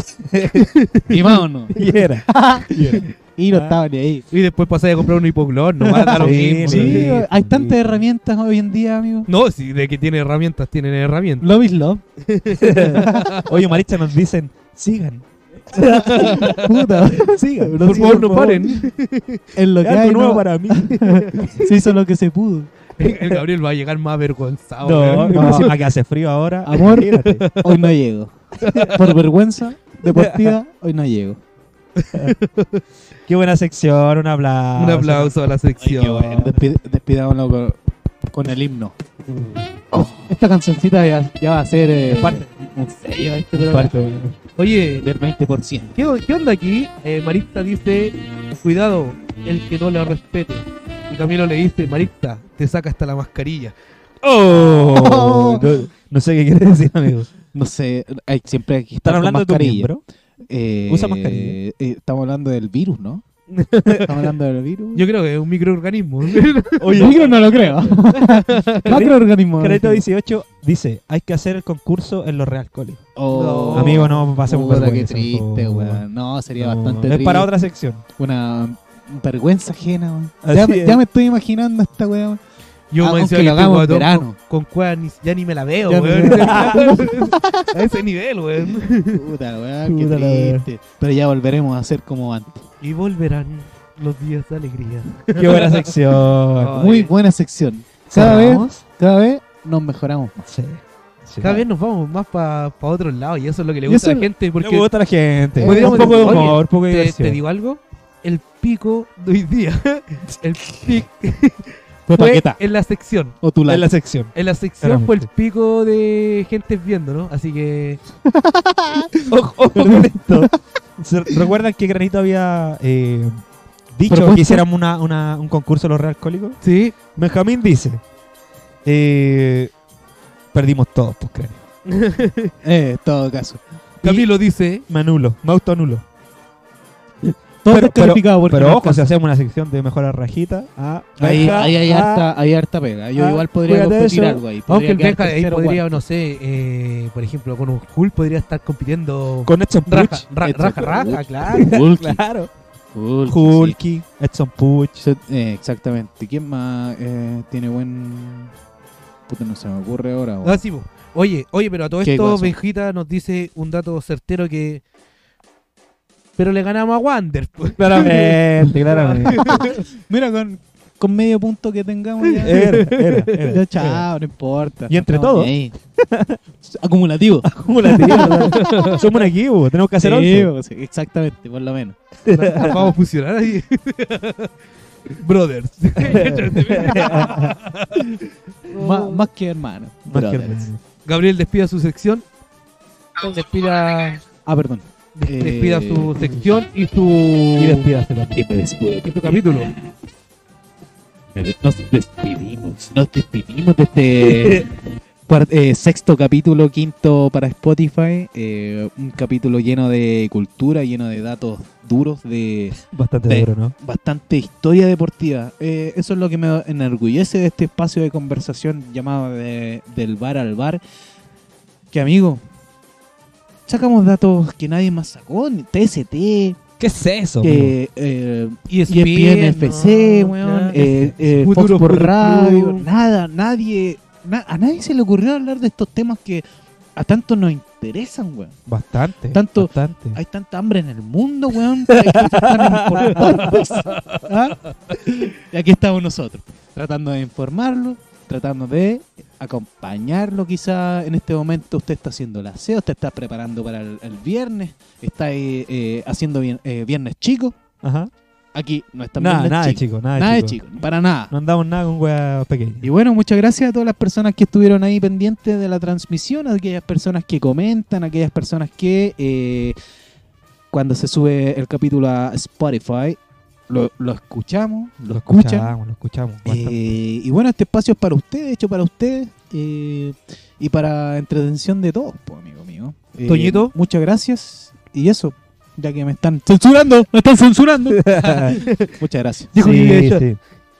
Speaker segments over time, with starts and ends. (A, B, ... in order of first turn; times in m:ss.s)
0:00.2-0:00.6 A
0:00.6-0:01.1 B
0:01.1-0:04.2 C
0:01.7-0:03.8 A
0:04.3-0:07.2 B
0:06.0-0:08.0 A
0:06.0-0:09.3 C
0:09.3-0:11.5 B
0:11.4-0:12.0 C
0:12.2-0:13.5 B
0:12.6-0:16.6 A
0:13.0-0:13.2 C
0:15.8-0:16.7 B
0:16.0-0:18.9 C
0:17.2-0:18.7 A
0:17.8-0:19.4 B
0:19.5-0:22.7 C
0:19.8-0:21.6 A
0:23.0-0:25.7 B
0:23.1-0:23.4 A
0:24.8-0:27.4 A
0:25.2-0:25.7 C
0:26.6-0:28.3 C
0:27.4-0:27.8 B
0:28.6-0:29.0 B
0:28.9-0:31.4 C
0:30.1-0:30.6 A
0:32.0-0:32.8 B
0:33.3-0:35.3 A
0:34.8-0:36.6 B
0:35.8-0:37.8 C
0:38.3-0:38.9 C
0:39.9-0:44.1 C
0:42.1-0:42.4 A
0:43.5-0:44.3 A
0:44.6-0:45.1 B
0:45.0-0:45.9 C
0:46.0-0:53.7 B
0:54.2-0:57.3 A
0:54.5-0:55.7 C
0:57.5-1:00.0 C
0:59.0-1:00.0 A
1:00.5-1:03.2 C
1:00.9-1:01.6 A
1:03.5-1:04.1 B
1:04.0-1:05.0 C
1:04.9-1:07.1 B
1:06.8-1:07.3 A
1:06.9-1:10.0 C
1:08.0-1:08.9 B
1:08.9-1:13.0 A
1:13.2-1:17.5 C
1:13.3-1:14.1 B
1:13.7-1:16.0 A
1:16.6-1:18.0 A
1:18.2-1:22.4 C
1:20.4-1:21.0 A
1:22.9-1:29.2 B
1:23.0-1:24.4 C
1:25.9-1:27.7 C
1:26.3-1:26.9 A
1:29.1-1:32.6 C
1:29.8-1:30.6 A
1:32.8-1:35.9 B
1:35.3-1:36.8 A
1:36.6-1:37.1 B
1:36.7-1:40.4 C
1:38.1-1:38.8 A
1:40.4-1:41.5 A
1:41.4-1:44.9 B
1:43.9-1:44.3 C
1:44.6-1:47.4 A
1:45.6-1:46.6 C
1:45.6-1:53.4 B
1:52.1-1:52.6 C
1:53.4-1:53.9 C
1:53.6-1:55.3 A
1:54.3-1:58.0 B
1:58.3-2:00.5 C
1:59.3-2:03.4 A
2:03.9-2:06.6 A
2:04.1-2:04.6 C
2:06.6-2:06.9 B
2:07.1-2:08.0 A
2:08.8-2:09.7 A
2:10.5-2:11.6 A
2:11.9-2:12.5 B
2:12.6-2:13.6 C
2:14.0-2:14.3 A
2:14.0-2:14.8 B
2:14.9-2:16.0 A
2:17.2-2:22.3 A
2:17.6-2:19.1 C
2:21.2-2:26.0 C
2:21.3-2:21.6 B
2:23.2-2:24.4 A
2:24.7-2:31.7 B
2:29.4-2:30.3 A
2:30.4-2:32.2 C
2:31.5-2:32.5 A
2:32.9-2:33.8 C
2:33.3-2:35.0 A
2:35.0-2:38.5 C
2:39.3-2:40.6 C
2:40.4-2:44.8 B
2:42.0-2:42.5 C
2:46.4-2:49.8 B
2:47.8-2:49.7 A
2:49.3-2:55.7 C
2:52.4-2:54.0 A
2:52.4-2:53.3 B
2:54.9-2:56.4 A
2:56.6-2:59.0 C
2:57.5-3:00.5 A
2:58.3-2:59.0 B
3:00.0-3:02.9 C
3:02.3-3:02.8 A
3:02.3-3:04.5 B
3:05.1-3:08.1 B
3:06.0-3:07.6 A
3:08.7-3:09.2 B
3:08.7-3:10.7 C
3:10.1-3:10.8 A
3:11.0-3:12.2 B
3:13.2-3:14.2 B
3:14.4-3:16.4 C
3:15.2-3:17.9 B
3:17.6-3:18.5 A
3:18.3-3:19.7 C
3:19.0-3:19.7 B
3:21.3-3:24.7 C
3:24.2-3:24.6 A
3:25.3-3:40.8 C
3:32.9-3:33.7 A
3:41.9-3:42.4 C
3:43.7-3:46.6 C
3:46.8-3:47.7 A
3:47.4-3:56.4 C
3:48.7-3:52.9 B
3:57.0-3:58.6 C
3:58.7-4:00.2 A
3:59.3-4:17.6 C
4:01.9-4:03.6 A
4:17.8-4:18.1 A
4:18.5-4:21.3 C
4:19.2-4:20.6 A
4:21.3-4:22.9 A
4:22.8-4:29.8 C
4:30.7-4:33.2 C
4:33.7-4:35.7 C
4:35.1-4:36.8 A
4:36.4-4:49.5 C
4:43.3-4:43.7 B
4:47.9-4:48.6 A
4:49.5-4:50.2 B
4:49.5-4:50.4 A